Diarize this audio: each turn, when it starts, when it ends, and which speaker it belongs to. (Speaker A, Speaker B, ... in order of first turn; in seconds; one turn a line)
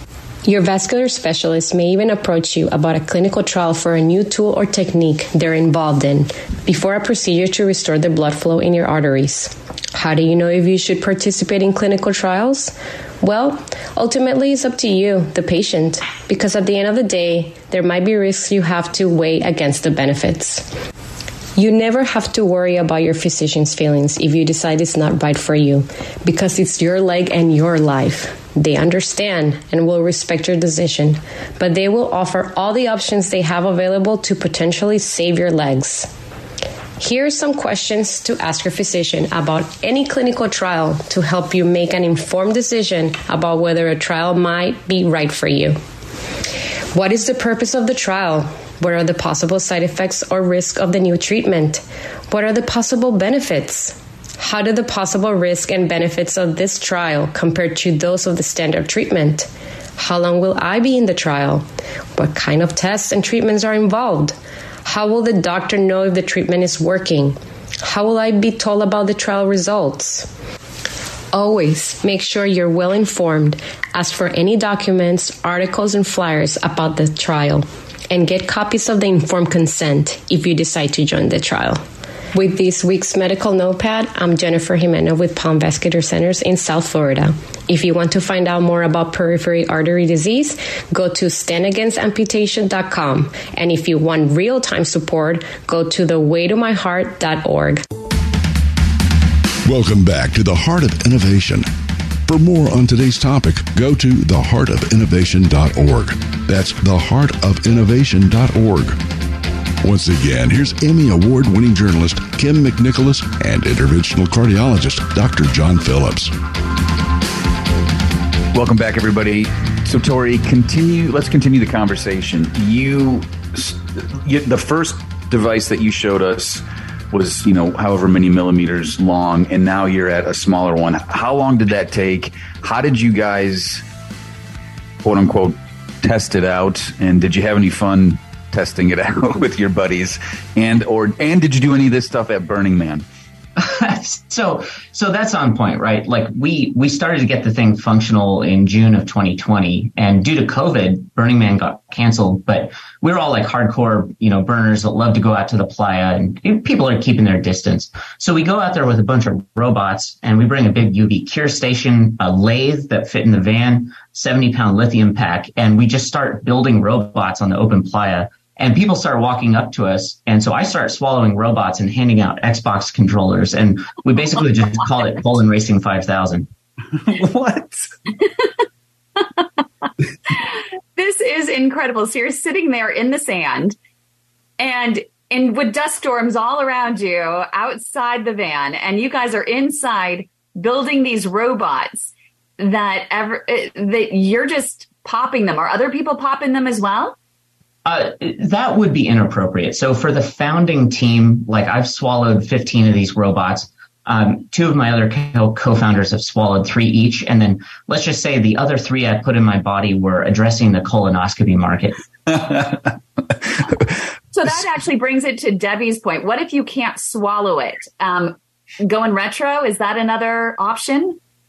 Speaker A: 0.5-20.7
Speaker A: 21.6-36.1
Speaker A: 37.0-45.8
Speaker A: 46.9-61.6
Speaker A: 62.1-70.3
Speaker A: 71.3-81.8
Speaker A: 82.3-97.8
Speaker B: 99.6-101.7
Speaker B: 102.3-109.0
Speaker B: 109.8-116.3
Speaker C: 118.5-133.8
Speaker C: 135.0-143.0
Speaker D: 143.6-176.5
Speaker C: 177.0-177.9
Speaker E: 180.3-183.8
Speaker E: 184.6-197.2
Speaker D: 197.8-212.0
Speaker C: 212.3-212.8
Speaker E: 214.3-221.2